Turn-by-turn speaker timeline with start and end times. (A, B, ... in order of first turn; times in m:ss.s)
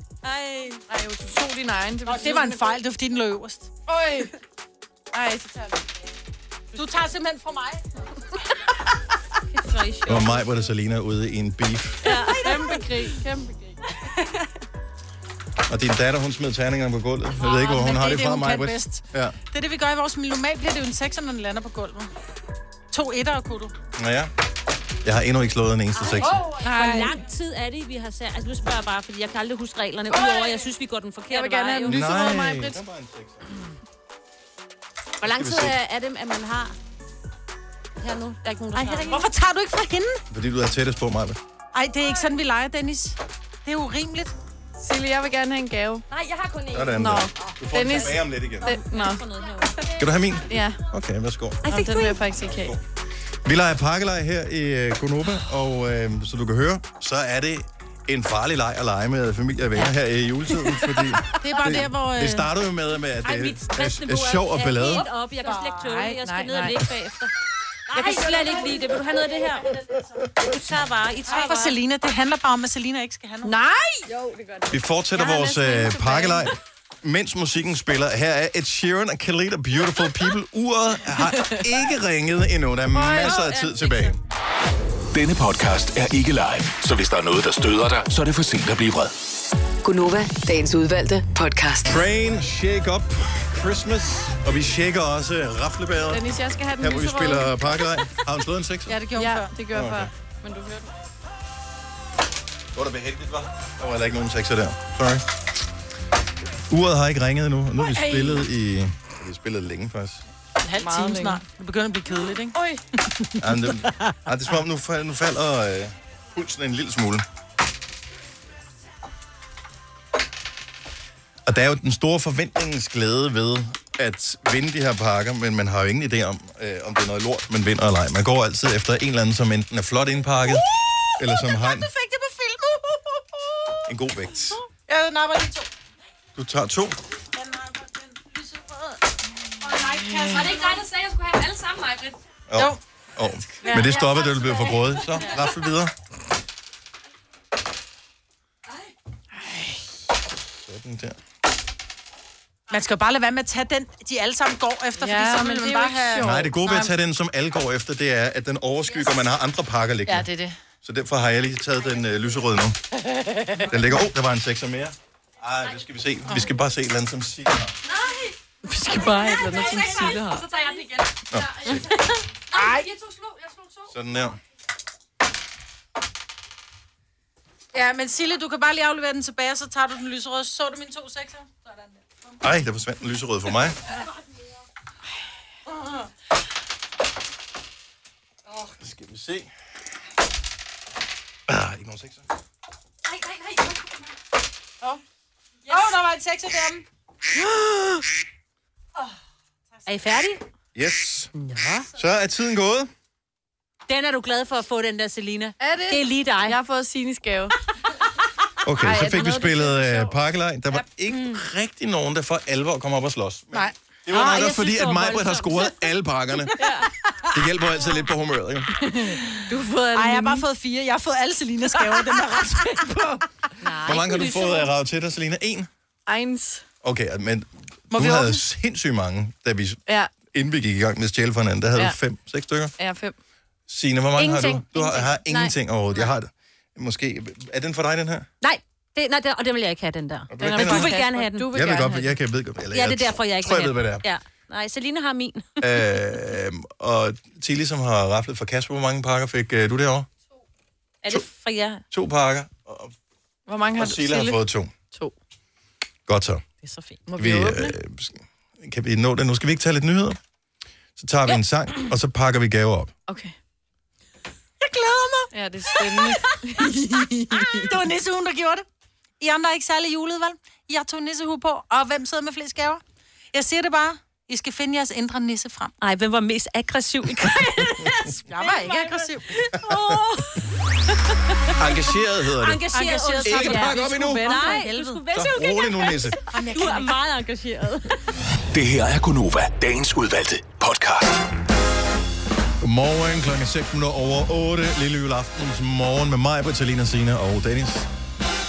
0:00.2-0:00.8 A
0:00.9-0:02.8 B
0:02.0-0:03.7 C
0:03.9-0:04.3 B
0:05.1-0:05.8 B
0:06.7-0:07.8 C
0:09.5-0:10.6 A
0:10.0-0:12.2 D
0:12.1-0:12.6 A
0:12.1-0:13.8 B
0:15.7-0:19.4 D
0:17.4-0:22.1 C
0:22.9-0:23.7 C
0:24.0-0:24.3 D
0:25.0-0:26.4 D
0:26.0-0:32.1 A
0:26.4-0:27.0 C
0:26.4-0:27.2 B
0:30.1-0:30.6 B
0:31.3-0:32.8 B
0:31.8-0:33.4 D
0:35.2-0:36.8 A
0:35.3-0:35.8 D
0:38.0-0:39.3 A
0:38.7-0:40.2 C
0:40.3-0:41.4 D
0:41.7-0:44.3 C
0:44.8-0:46.0 B
0:46.1-0:47.0 E
0:46.7-0:48.6 D
0:46.9-0:49.3 B
0:48.6-0:49.8 A
0:50.0-0:51.6 D
0:50.5-0:50.8 B
0:51.6-0:52.7 B
0:51.7-0:52.1 A
0:52.5-0:52.8 D
0:53.4-1:05.0 D
1:01.4-1:02.5 C
1:03.2-1:07.3 A
1:05.4-1:06.9 B
1:07.9-1:09.7 A
1:08.0-1:08.7 B
1:10.4-1:11.8 A
1:11.3-1:13.5 C
1:13.4-1:14.5 B
1:14.7-1:24.2 D
1:15.1-1:16.5 B
1:21.3-1:21.6 B
1:22.9-1:23.6 B
1:23.1-1:24.1 A
1:25.1-1:29.1 F
1:29.8-1:31.9 G
1:31.8-1:36.2 D
1:36.1-1:37.6 B
1:36.8-1:39.0 D
1:38.9-1:39.5 C
1:39.2-1:40.9 B
1:39.7-1:40.1 D
1:42.7-1:45.2 D
1:46.7-1:50.2 D
1:47.9-1:48.3 B
1:50.6-1:52.6 C
1:50.8-1:51.4 B
1:52.5-1:52.8 B
1:53.1-1:54.2 C
1:53.4-1:57.2 D
2:01.4-2:10.6 D
2:11.1-2:13.8 C
2:11.2-2:11.9 D
2:13.8-2:14.6 D
2:14.8-2:15.7 C
2:16.3-2:17.0 D
2:17.3-2:20.8 C
2:20.3-2:22.2 E
2:22.5-2:25.9 D
2:23.6-2:23.9 C
2:29.5-2:29.7 C
2:30.6-2:31.2 D
2:32.7-2:36.3 C
2:35.0-2:36.8 B
2:36.2-2:40.3 D
2:40.1-2:40.5 B
2:40.8-2:42.8 D
2:43.7-2:47.7 D
2:47.9-2:48.3 E
2:48.6-2:50.5 B
2:49.0-2:51.9 E
2:51.3-2:51.9 D
2:52.5-2:53.9 E
2:52.6-2:52.8 C
2:53.9-2:54.4 D
2:57.7-3:02.1 C
3:02.4-3:03.8 D
3:08.7-3:09.5 D
3:11.5-3:12.2 D
3:13.4-3:13.7 E
3:15.7-3:16.8 C
3:19.9-3:20.4 A
3:20.7-3:21.3 D
3:21.3-3:21.9 A
3:21.9-3:22.9 D
3:23.9-3:26.6 A
3:25.6-3:27.5 B
3:28.6-3:36.6 D
3:28.8-3:30.1 B
3:34.1-3:35.8 A
3:36.6-3:36.9 B
3:37.3-3:38.7 D
3:38.9-3:40.4 B
3:39.2-3:43.2 C
3:43.6-3:44.7 A
3:43.8-3:45.7 D
3:46.1-3:46.6 B
3:46.8-3:49.8 D
3:47.9-3:48.4 C
3:50.3-3:52.7 D
3:52.8-3:53.2 B
3:53.7-3:58.3 D
3:54.2-3:55.5 A
3:58.4-4:01.5 A
4:00.3-4:00.9 D
4:00.4-4:02.2 B
4:01.5-4:04.0 D
4:02.7-4:06.0 A
4:05.6-4:10.1 D
4:11.0-4:11.8 A
4:11.9-4:12.9 D
4:13.5-4:14.4 B
4:13.8-4:14.7 D
4:16.1-4:16.4 D
4:16.6-4:17.0 A
4:17.0-4:17.7 B
4:17.2-4:20.2 D
4:21.0-4:22.9 D
4:23.1-4:23.3 B
4:24.6-4:28.6 C
4:25.3-4:27.5 B
4:29.2-4:32.8 C
4:33.3-4:35.7 C
4:35.8-4:40.3 A
4:38.3-4:39.5 C
4:41.6-4:42.6 D
4:42.3-4:48.0 A
4:42.7-4:45.0 C
4:43.2-4:44.3 D
4:45.1-4:46.2 D
4:46.3-4:47.0 C
4:48.5-4:51.2 F
4:52.6-4:57.9 D